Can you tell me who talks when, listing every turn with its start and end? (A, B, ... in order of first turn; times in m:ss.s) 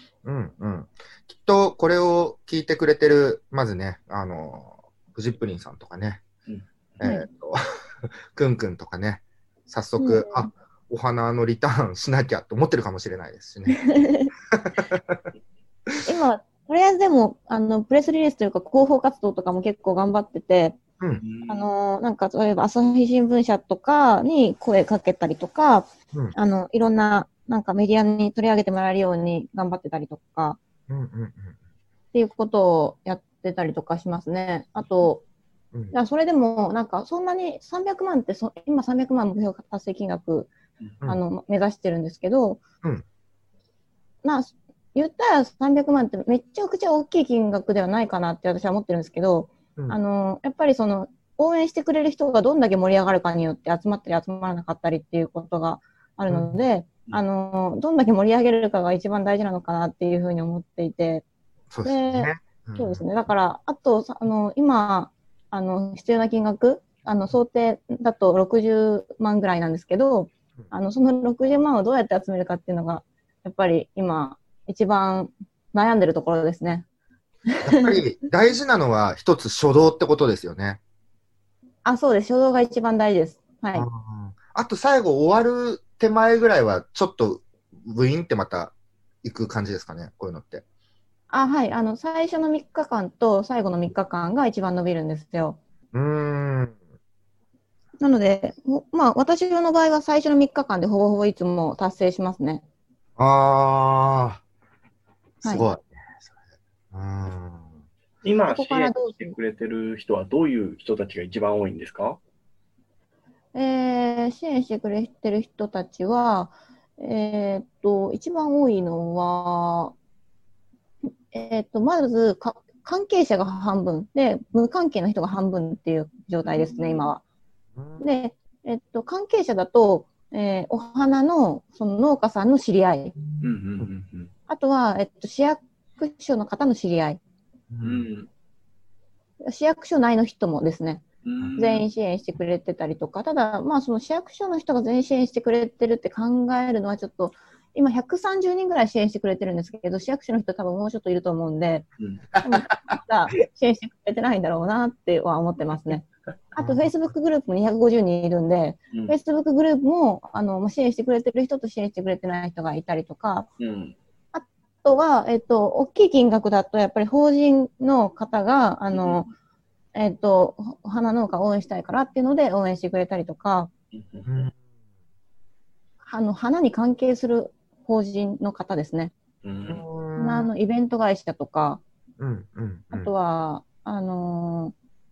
0:00.2-0:06.2 A
0:07.0-0:07.6 A
0:08.3-0:14.0 A
0:10.0-0:10.5 B
0:13.7-0:14.3 B
0:14.5-0:15.2 A
0:16.0-0:20.8 B
0:21.2-0:21.7 C
0:21.5-0:30.6 B
0:30.9-0:31.6 A
0:32.1-0:35.2 B
0:35.9-0:40.5 B
0:41.1-0:42.6 B
0:44.2-1:01.2 B
0:56.3-0:56.6 A
1:01.7-1:03.0 A
1:01.8-1:16.8 B
1:17.5-1:18.0 B
1:17.6-1:20.8 A
1:21.8-1:23.9 B
1:23.7-1:30.6 A
1:31.3-1:35.6 B
1:35.9-1:36.8 A
1:38.0-1:42.6 B
1:43.2-1:44.4 A
1:45.4-1:46.3 A
1:46.9-1:47.8 A
1:48.2-1:52.2 C
1:48.5-1:49.4 B
1:53.5-2:00.0 B
2:01.3-2:07.2 B
2:07.8-2:08.0 A
2:08.0-2:13.2 B
2:13.4-2:14.3 C
2:14.5-2:17.2 B
2:17.7-2:18.1 A
2:17.8-2:18.3 C
2:19.4-2:21.0 B
2:21.2-2:21.8 C
2:21.6-2:31.8 B
2:32.0-2:32.2 C
2:32.4-2:32.9 A
2:32.4-2:43.5 B
2:36.6-2:36.9 A
2:43.6-2:44.0 C
2:44.3-2:49.3 B
2:48.9-2:49.2 C
2:50.0-2:53.7 B
2:53.9-2:54.5 C
2:54.3-2:54.6 A
2:56.1-2:59.1 B
2:59.4-2:59.8 C
2:59.7-3:00.5 A
3:00.2-3:01.8 B
3:02.2-3:03.1 A
3:02.9-3:04.7 B